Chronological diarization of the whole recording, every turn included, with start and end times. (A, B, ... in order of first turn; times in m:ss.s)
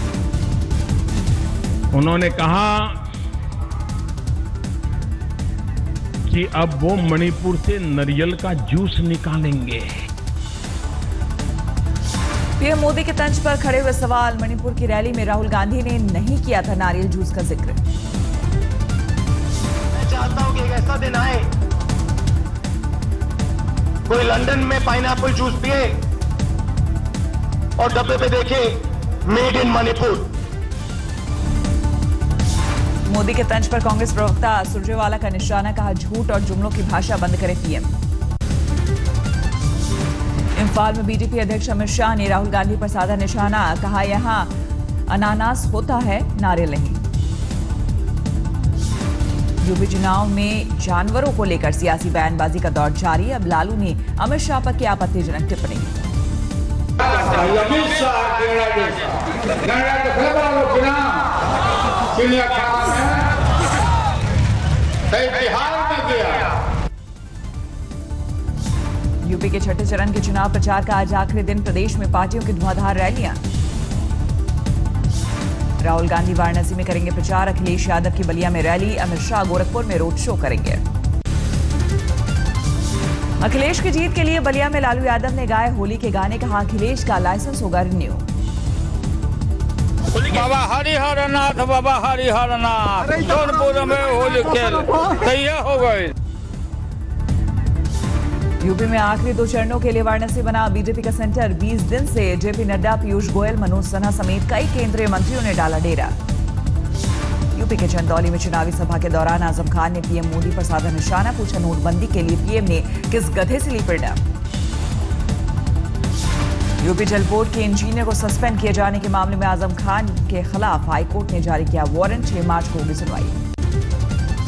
0:01.9-0:03.0 A
0:06.3-0:09.9 A
0:12.6-0:17.8 B
0:19.9-0:21.5 C
0:24.1-0:26.0 C
0:27.8-0:30.3 C
0:33.1-0:38.0 B
0:40.6-0:44.5 B
0:45.1-0:47.0 B
0:49.6-0:56.0 B
0:57.3-0:57.6 A
0:57.7-0:58.1 D
0:58.1-0:58.4 A
0:58.8-0:59.2 D
1:00.4-1:00.9 A
1:02.6-1:03.1 D
1:05.5-1:06.3 D
1:09.2-1:13.4 B
1:15.8-1:20.8 B
1:23.4-1:28.3 B
1:30.2-1:36.1 D
1:38.6-1:46.2 B
1:47.5-1:54.2 B
1:56.8-2:03.4 B